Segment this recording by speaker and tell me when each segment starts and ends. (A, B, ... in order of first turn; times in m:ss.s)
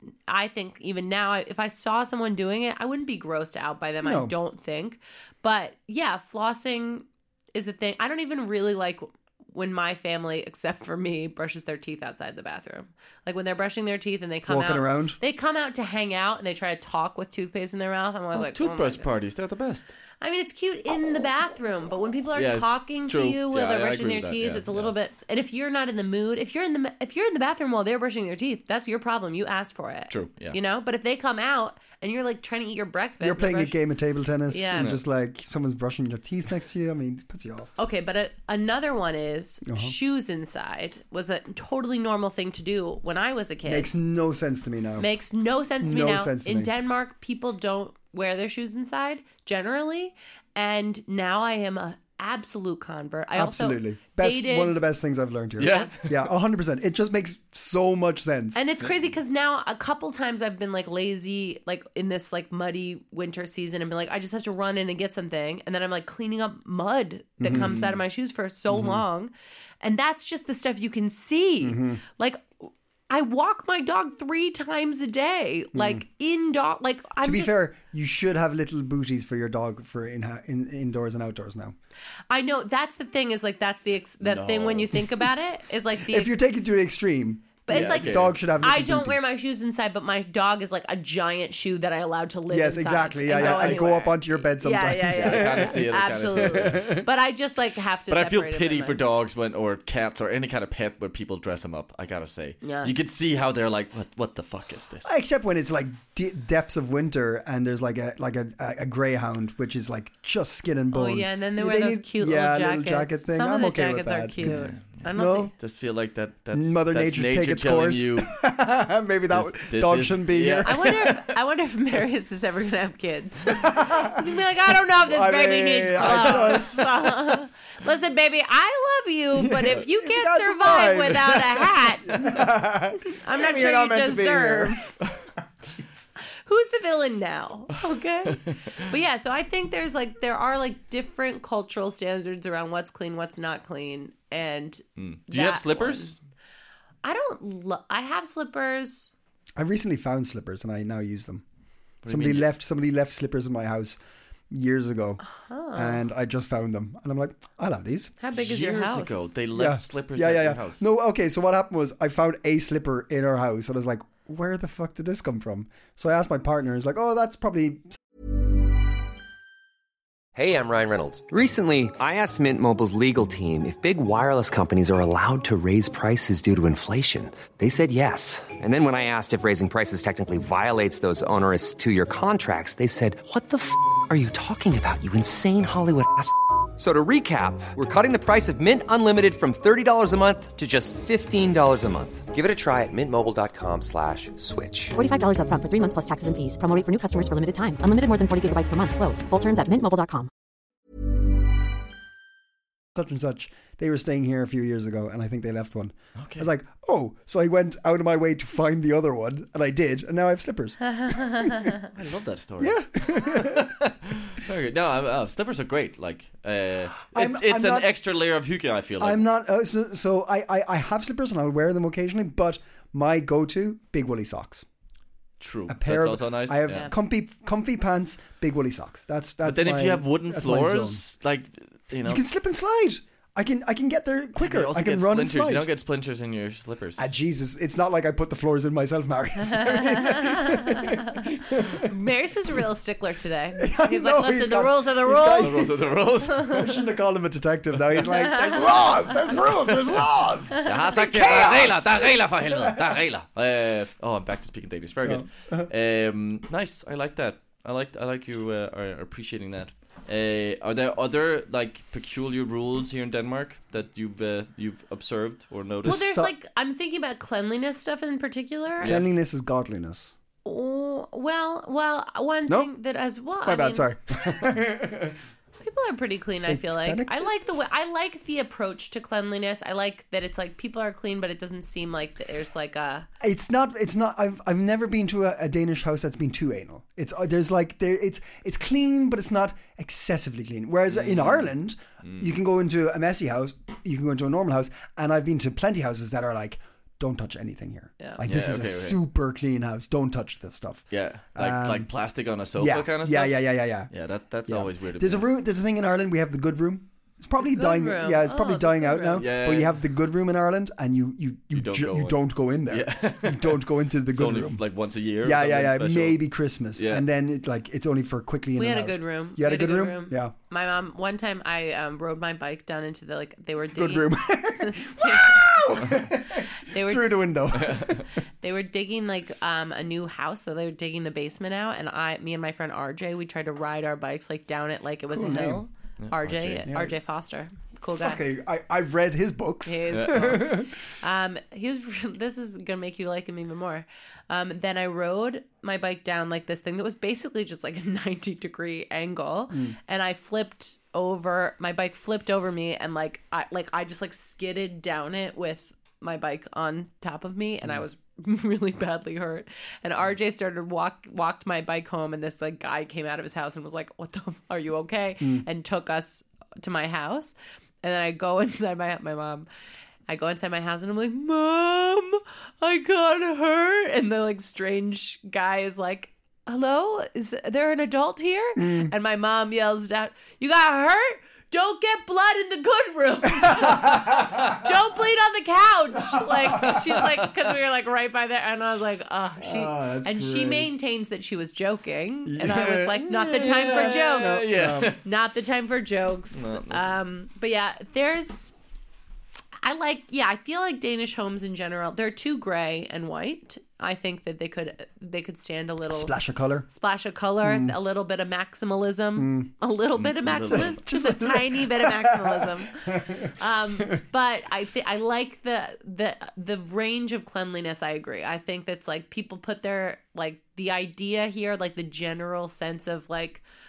0:00.3-0:19.1 A
0:04.0-0:04.3 B
0:14.5-0:15.2 B
0:18.3-0:19.9 C
0:20.2-0:33.8 A
0:22.3-0:24.9 C
0:30.1-0:30.6 C
0:33.2-0:37.7 B
0:34.5-0:34.9 A
0:37.8-0:43.9 A
0:39.6-0:39.9 B
0:43.6-0:45.1 B
0:45.0-0:54.8 A
0:45.8-0:46.7 B
0:53.3-0:58.6 B
0:55.6-0:56.3 C
0:55.6-0:55.9 A
0:58.5-1:17.6 A
1:07.4-1:08.0 B
1:08.7-1:09.0 B
1:11.6-1:12.0 B
1:15.7-1:16.0 B
1:17.2-1:21.7 B
1:22.3-1:26.3 A
1:24.2-1:25.0 C
1:26.0-1:29.3 B
1:27.6-1:39.1 A
1:27.7-1:28.4 C
1:32.5-1:35.8 B
1:33.3-1:33.9 C
1:35.1-1:36.9 C
1:36.4-1:37.0 B
1:38.1-1:45.1 C
1:42.6-1:42.9 A
1:45.0-1:55.5 B
1:50.9-1:55.5 A
1:54.4-1:55.0 C
1:55.5-1:58.3 C
1:56.5-2:01.0 B
1:59.3-2:01.2 C
2:00.6-2:12.4 A
2:03.5-2:04.3 B
2:05.0-2:07.1 B
2:06.1-2:06.6 C
2:09.3-2:14.8 B
2:13.0-2:14.9 A
2:16.2-2:26.1 A
2:18.3-2:18.6 C
2:25.0-2:26.2 C
2:27.0-2:29.1 A
2:29.6-2:31.4 B
2:32.0-2:32.5 C
2:32.0-2:34.0 B
2:34.5-2:35.2 B
2:35.3-2:36.0 A
2:35.7-2:38.1 B
2:38.2-2:39.3 A
2:38.3-2:40.8 C
2:39.5-2:48.0 B
2:50.4-3:15.0 D
3:14.9-3:20.3 E
3:22.9-3:31.7 B
3:26.2-3:26.5 C
3:30.9-3:31.7 A
3:31.9-3:39.2 C
3:32.6-3:33.7 B
3:37.1-3:37.9 B
3:39.0-3:44.6 B
3:45.4-3:46.9 C
3:45.7-3:51.0 B
3:49.4-3:52.2 C
3:52.0-3:55.7 B
3:54.4-3:57.1 C
3:57.0-4:01.9 B
3:59.4-4:05.7 A
4:03.6-4:13.0 B
4:05.4-4:06.6 C
4:06.2-4:06.6 A
4:10.6-4:26.1 C
4:15.0-4:15.7 B
4:25.8-4:26.3 B
4:25.8-4:28.9 A
4:28.8-4:30.1 B
4:30.4-4:33.9 A
4:33.4-4:35.2 B
4:35.6-4:43.1 A
4:36.4-4:37.5 B
4:43.2-5:01.9 B
4:50.9-4:51.5 C
4:52.0-4:52.3 C
4:58.2-4:59.0 C
5:00.9-5:05.2 C
5:02.6-5:03.9 B
5:04.5-5:14.6 B
5:07.4-5:09.2 A
5:09.2-5:09.8 C
5:11.5-5:16.2 C
5:15.2-5:20.3 B
5:16.7-5:17.0 C
5:18.6-5:27.4 A
5:23.7-5:28.0 B
5:27.5-5:28.0 C
5:28.4-5:38.2 A
5:35.1-5:35.6 B
5:36.0-5:36.7 C
5:36.7-5:36.9 B
5:38.0-5:40.7 B
5:39.6-6:09.5 A
5:39.9-5:40.4 C
5:49.5-5:49.8 B
6:05.2-6:05.4 B
6:10.1-6:38.5 A
6:18.6-6:18.9 B
6:23.4-6:24.4 B
6:26.2-6:26.7 B
6:26.5-6:27.2 C
6:29.4-6:30.7 B
6:32.2-6:35.0 B
6:33.4-6:35.0 C
6:36.3-6:36.9 C
6:39.6-6:46.1 A
6:45.9-6:46.7 B
6:46.7-7:03.4 A
6:47.4-6:47.8 B
6:49.2-6:49.5 B
6:50.0-6:50.8 C
6:50.4-6:54.0 B